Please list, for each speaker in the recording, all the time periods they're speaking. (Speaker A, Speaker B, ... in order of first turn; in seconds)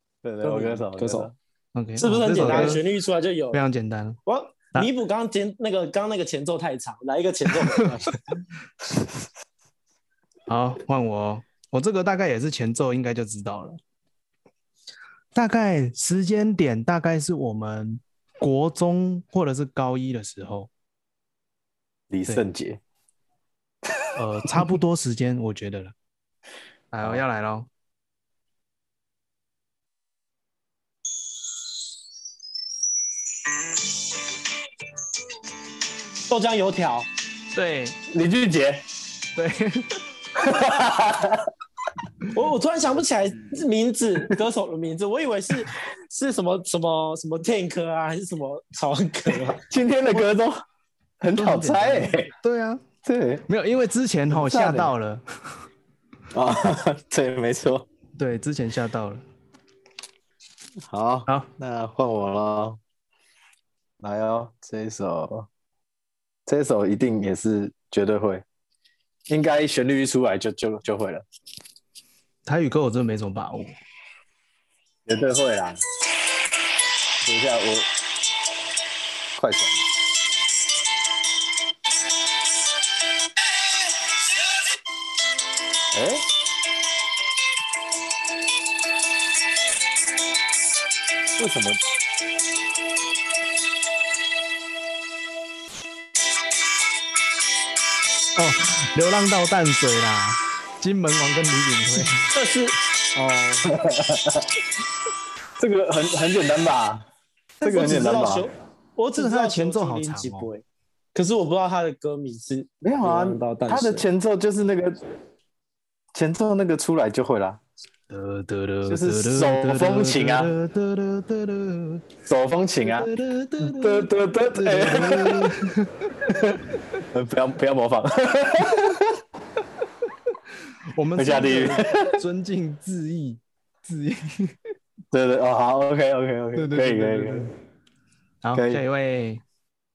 Speaker A: 0.2-1.3, 2.5-2.7, 22.1-22.8, 38.1-38.9, 40.4-41.5, 49.7-50.6, 51.2-52.3, 53.0-53.5, 54.3-54.9, 56.3-57.9, 60.8-62.8, 64.0-65.5, 66.5-68.4, 69.3-71.2, 75.0-75.8, 77.2-77.9, 79.3-79.8, 85.9-86.2, 91.4-91.8, 103.6-104.5, 105.6-107.1, 107.6-108.5, 112.8-115.0, 116.1-117.6, 118.9-120.5, 122.2-123.1, 123.6-125.5, 126.3-126.6, 127.1-129.2, 131.2-132.2, 135.1-137.5, 138.5-138.8
Speaker B: 0.4-1.3, 2.0-3.6, 4.2-8.1, 36.3-37.1, 42.3-49.6, 102.3-103.7, 107.6-110.6, 111.1-114.0
Speaker C: 1.7-2.8, 3.5-4.2, 10.5-13.8, 15.3-20.7, 24.1-25.9, 26.9-27.7, 37.5-38.0, 39.4-40.0, 51.3-52.8, 53.5-55.2, 58.2-59.2, 72.5-73.8, 98.3-102.3, 109.2-110.5, 118.1-122.0, 122.8-126.2, 130.9-134.6, 136.6-137.5, 138.4-139.4